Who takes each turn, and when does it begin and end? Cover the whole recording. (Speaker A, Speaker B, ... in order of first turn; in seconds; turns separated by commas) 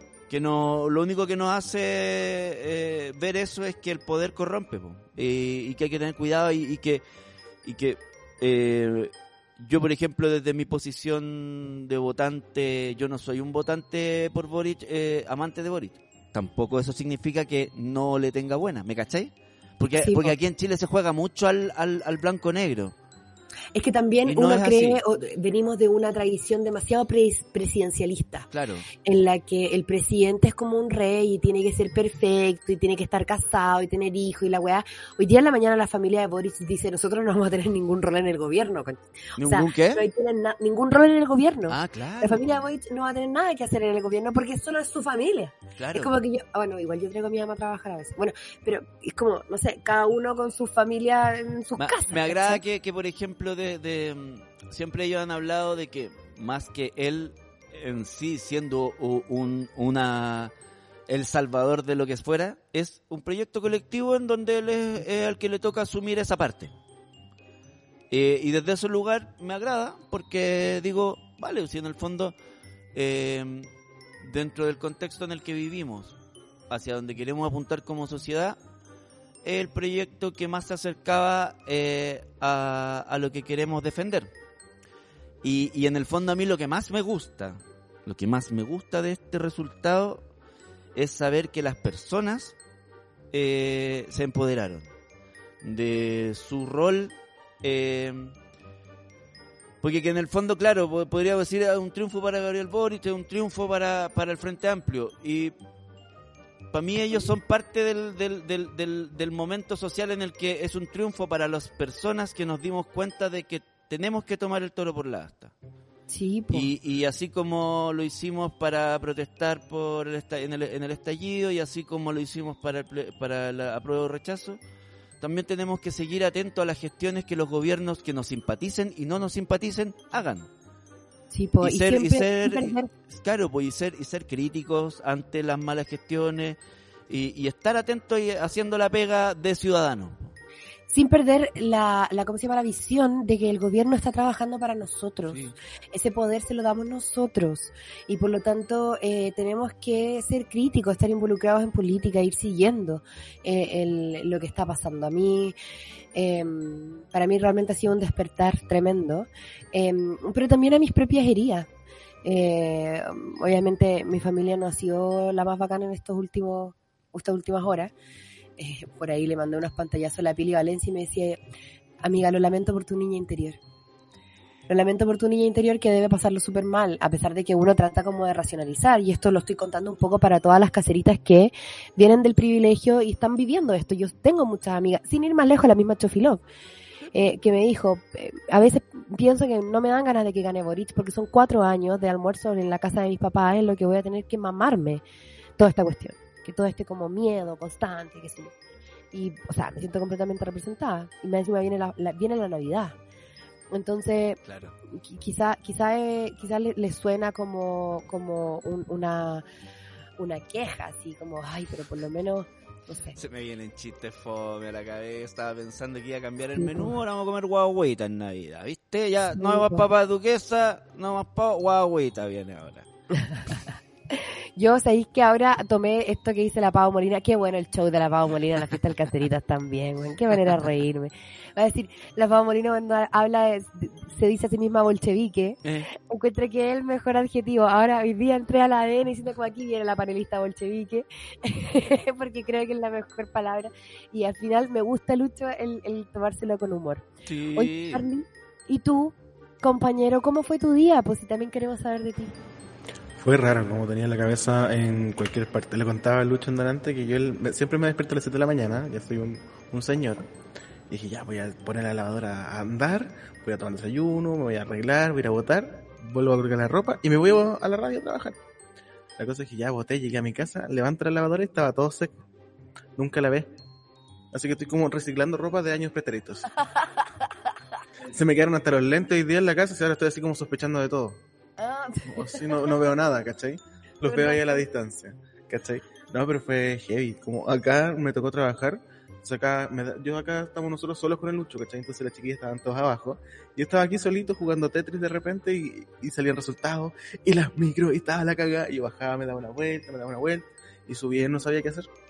Speaker A: 0.3-7.0, Speaker A: 7.6-22.9, Speaker B: 19.9-20.3, Speaker B: 23.7-28.5, Speaker A: 24.3-25.0, Speaker A: 28.5-28.9, Speaker B: 29.0-52.6, Speaker A: 39.4-40.0, Speaker A: 41.7-42.4, Speaker A: 45.8-46.1, Speaker A: 51.8-60.5, Speaker A: 61.1-66.7, Speaker A: 68.1-72.3, Speaker A: 72.9-73.7, Speaker A: 74.2-76.1, Speaker A: 76.7-78.6, Speaker A: 79.4-84.3, Speaker A: 85.4-90.2, Speaker A: 90.9-92.5, Speaker A: 93.3-94.9, Speaker A: 95.6-98.3, Speaker A: 99.8-105.5, Speaker A: 106.7-115.5, Speaker B: 116.1-116.7, Speaker A: 116.5-124.6, Speaker A: 125.2-130.5, Speaker B: 131.3-132.9, Speaker A: 131.6-136.6, Speaker A: 137.1-140.3, Speaker B: 140.9-145.4, Speaker A: 145.3-145.5, Speaker B: 145.9-155.6, Speaker B: 156.1-161.7, Speaker B: 162.2-167.9, Speaker B: 168.6-171.4, Speaker B: 172.0-173.6, Speaker B: 174.7-186.4, Speaker B: 187.1-195.0, Speaker B: 195.6-198.5, Speaker B: 199.1-202.9, Speaker B: 203.7-209.4, Speaker A: 204.4-204.7, Speaker B: 210.2-213.2, Speaker A: 213.2-222.9, Speaker B: 216.6-216.9, Speaker B: 219.4-219.8, Speaker B: 223.1-223.6, Speaker B: 224.1-252.3, Speaker A: 247.2-248.0, Speaker C: 253.2-260.3, Speaker C: 260.9-268.4, Speaker C: 269.2-272.2, Speaker C: 272.9-273.5, Speaker C: 274.3-276.5, Speaker C: 278.1-281.2, Speaker B: 281.6-282.7, Speaker C: 282.0-301.9, Speaker B: 284.0-284.6